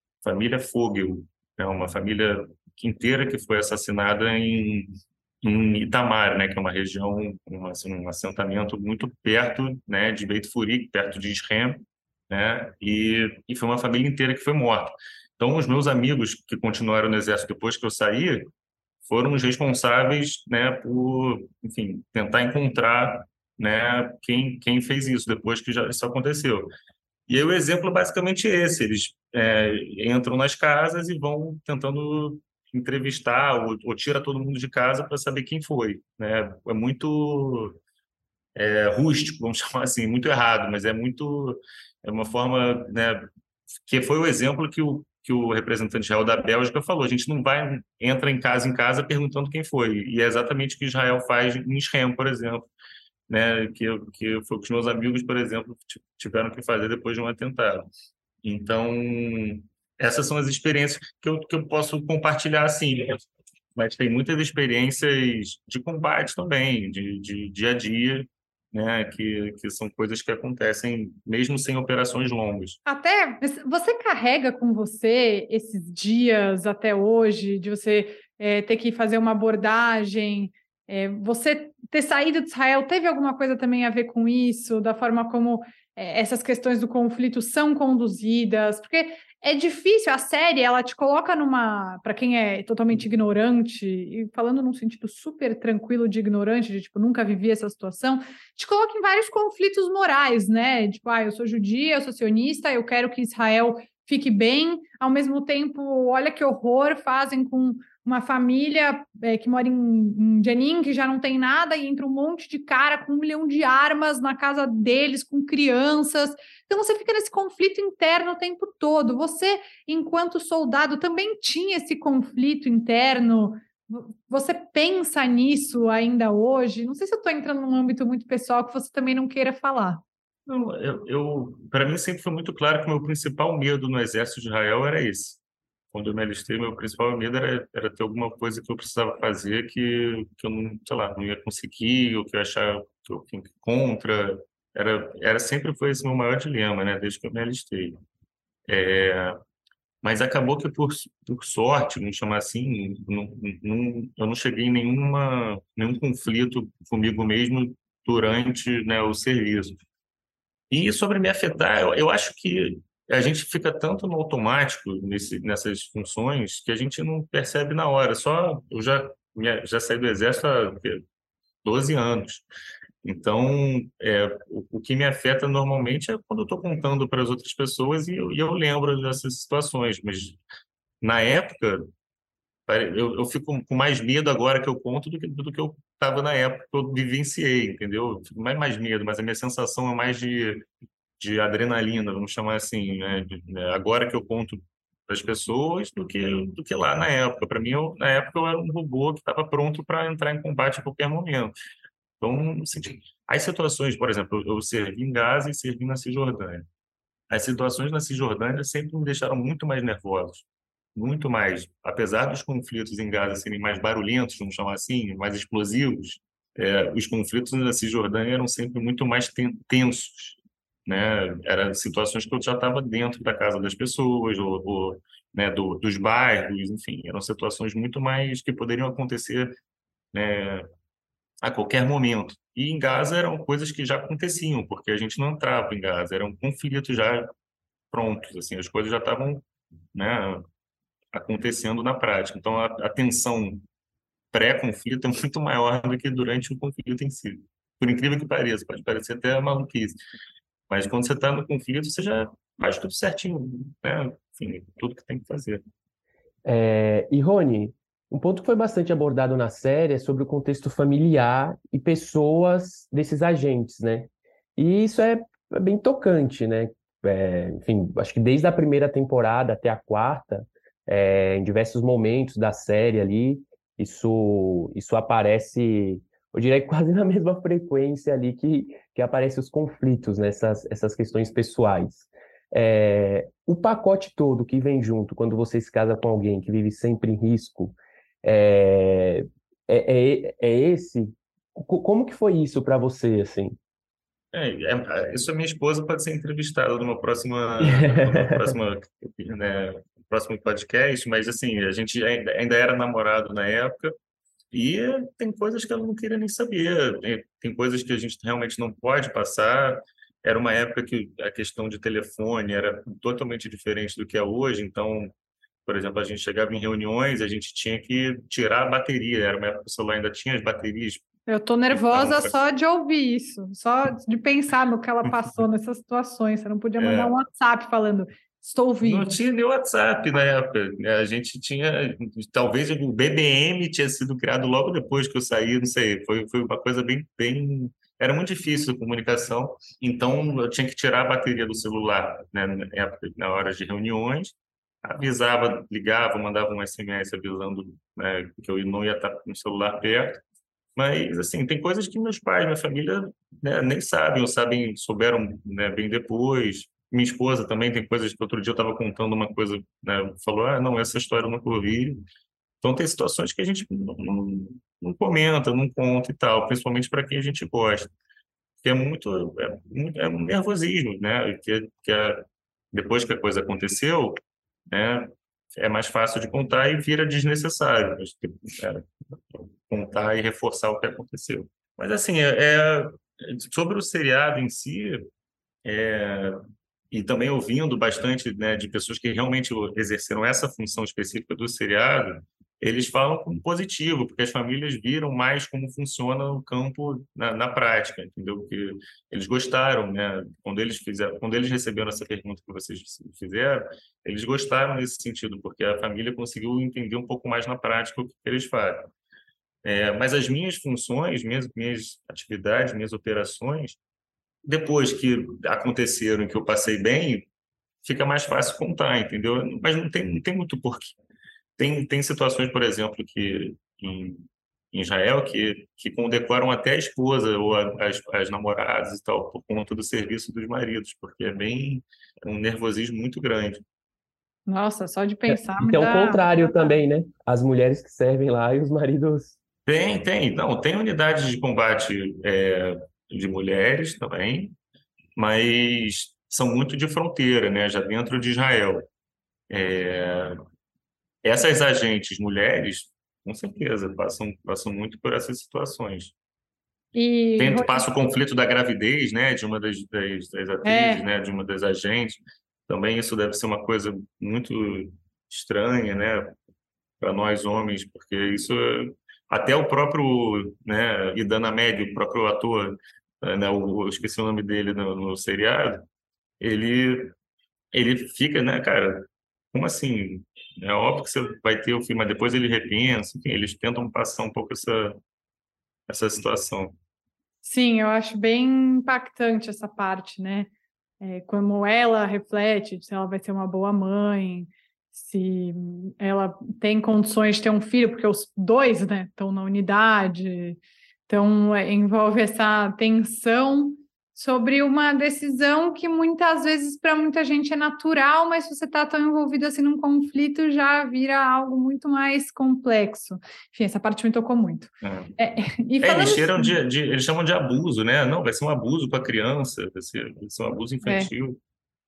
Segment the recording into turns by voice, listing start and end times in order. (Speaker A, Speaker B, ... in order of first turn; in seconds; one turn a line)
Speaker A: 0.2-18.5
Speaker A: 19.0-26.7
Speaker A: 27.3-37.8
Speaker A: 38.5-43.2
Speaker A: 43.9-52.7
Speaker A: 53.3-57.9
Speaker A: 58.4-63.2
Speaker A: 63.7-72.8
Speaker B: 72.8-130.0
Speaker A: 130.5-135.4
Speaker A: 135.9-148.0
Speaker A: 148.7-149.4
Speaker A: 150.0-159.8
Speaker A: 160.7-171.0
Speaker A: 171.6-172.4
Speaker A: 173.0-180.4
Speaker A: 181.0-181.9
Speaker A: 182.7-190.6
Speaker A: 191.2-201.5
Speaker A: 202.2-206.7
Speaker A: 207.3-229.5
Speaker A: 230.1-230.7
Speaker A: 231.4-237.3
Speaker A: 237.9-240.4
Speaker A: 241.1-243.6
Speaker A: 244.3-250.0
Speaker A: 250.7-255.6
Speaker C: 256.4-293.6
Speaker A: 294.3-303.9
Speaker C: 297.6-298.6
Speaker A: 304.5-315.1
Speaker A: 315.6-321.0
Speaker B: 321.3-329.1
Speaker A: 321.7-322.4
Speaker A: 325.0-325.4
Speaker A: 326.8-327.2
Speaker A: 328.8-350.2
Speaker A: 350.8-362.0
Speaker A: 362.6-367.9
Speaker A: 368.6-385.0
Speaker A: 385.6-386.4
Speaker A: 386.9-408.9
Speaker A: 409.6-413.8
Speaker A: 414.4-417.3
Speaker A: 417.8-420.9
Speaker A: 421.6-433.6
Speaker B: 434.5-436.8
Speaker C: 435.3-439.4
Speaker A: 439.6-444.5
Speaker A: 445.1-448.9
Speaker A: 449.5-450.4
Speaker A: 451.2-456.1
Speaker B: 456.9-457.8
Speaker A: 457.4-466.3
Speaker B: 460.6-461.1
Speaker A: 467.0-475.9
Speaker A: 476.4-477.1
Speaker A: 477.7-485.0
Speaker A: 485.9-486.7
Speaker B: 487.4-490.5
Speaker B: 491.0-516.5
Speaker A: 514.8-515.1
Speaker A: 515.8-521.4
Speaker B: 520.8-521.1